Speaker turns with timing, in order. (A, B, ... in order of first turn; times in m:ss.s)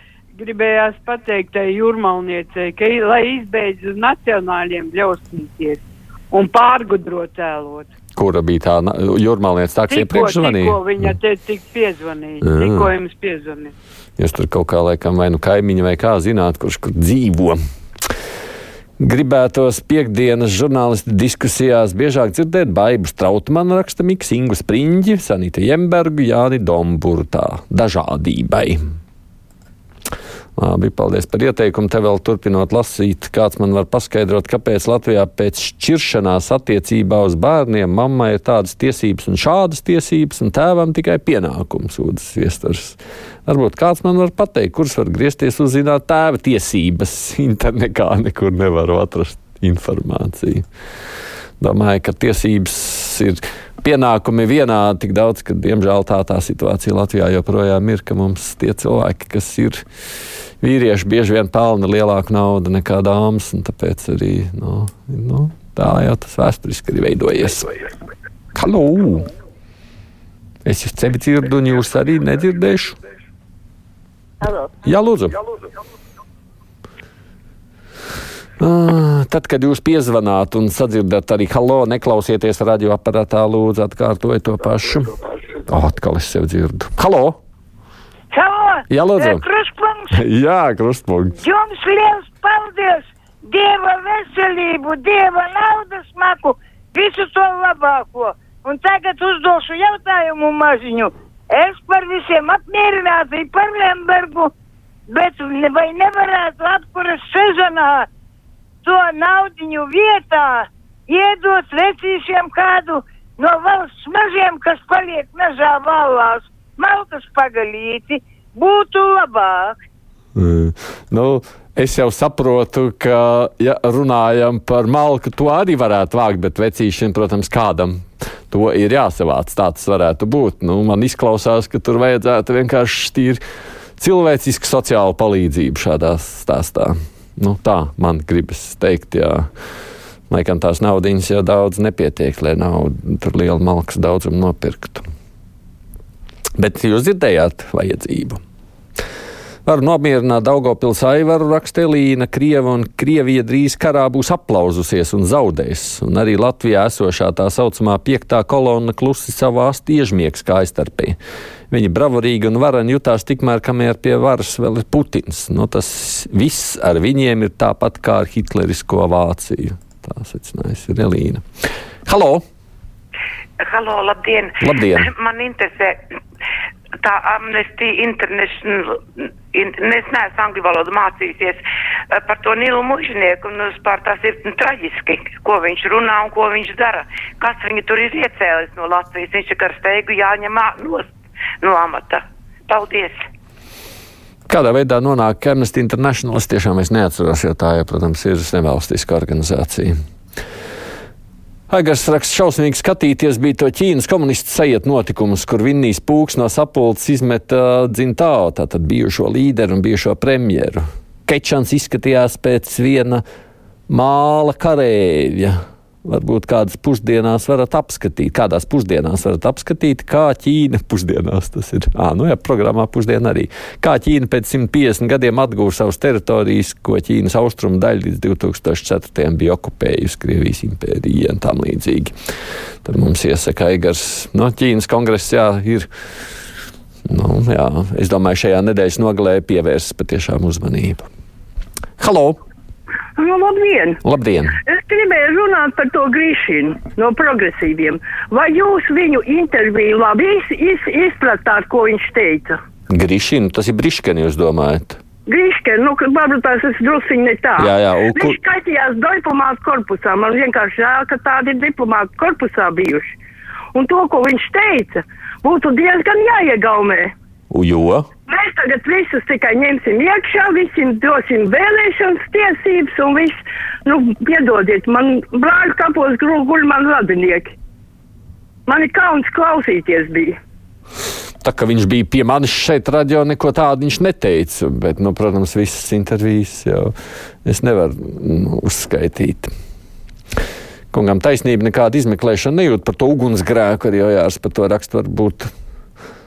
0:00.4-0:07.9 A
0:08.2-0:11.1 B
0:09.9-0:13.7 A
0:12.4-0:12.9 B
0:14.2-0:17.6 B
0:19.0-0:28.8 B
0:30.6-0:50.6 B
0:51.6-0:59.8 B
1:00.6-1:07.7 B
1:08.5-1:09.3 B
1:10.6-1:13.0 B
1:14.8-1:15.4 B
1:18.6-1:25.2 B
1:25.7-1:27.4 B
1:28.3-1:30.2 C
1:28.9-1:29.4 B
1:30.1-1:31.4 B
1:31.4-1:44.5 C
1:45.1-1:48.1 C
1:48.8-1:59.8 C
2:00.4-2:13.4 B
2:14.0-2:19.5 B
2:20.3-2:25.1 B
2:26.6-2:28.4 B
2:29.6-2:41.2 B
2:41.7-2:51.4 B
2:52.0-2:52.4 B
2:53.6-2:56.0 D
2:54.6-2:55.1 B
2:57.0-3:13.2 D
3:14.5-3:19.9 B
3:21.7-3:33.2 B
3:33.9-3:52.1 B
3:52.8-3:55.9 B
3:57.1-4:01.0 B
4:02.0-4:02.4 B
4:03.2-4:04.0 E
4:04.0-4:04.6 B
4:04.7-4:12.5 E
4:12.9-4:15.0 B
4:15.3-4:17.6 E
4:17.6-4:18.4 B
4:18.2-4:23.1 E
4:23.7-4:27.1 E
4:27.5-4:28.0 B
4:28.3-4:37.5 E
4:38.7-4:40.3 E
4:41.4-4:46.9 B
4:47.4-4:49.5 B
4:50.9-4:55.5 B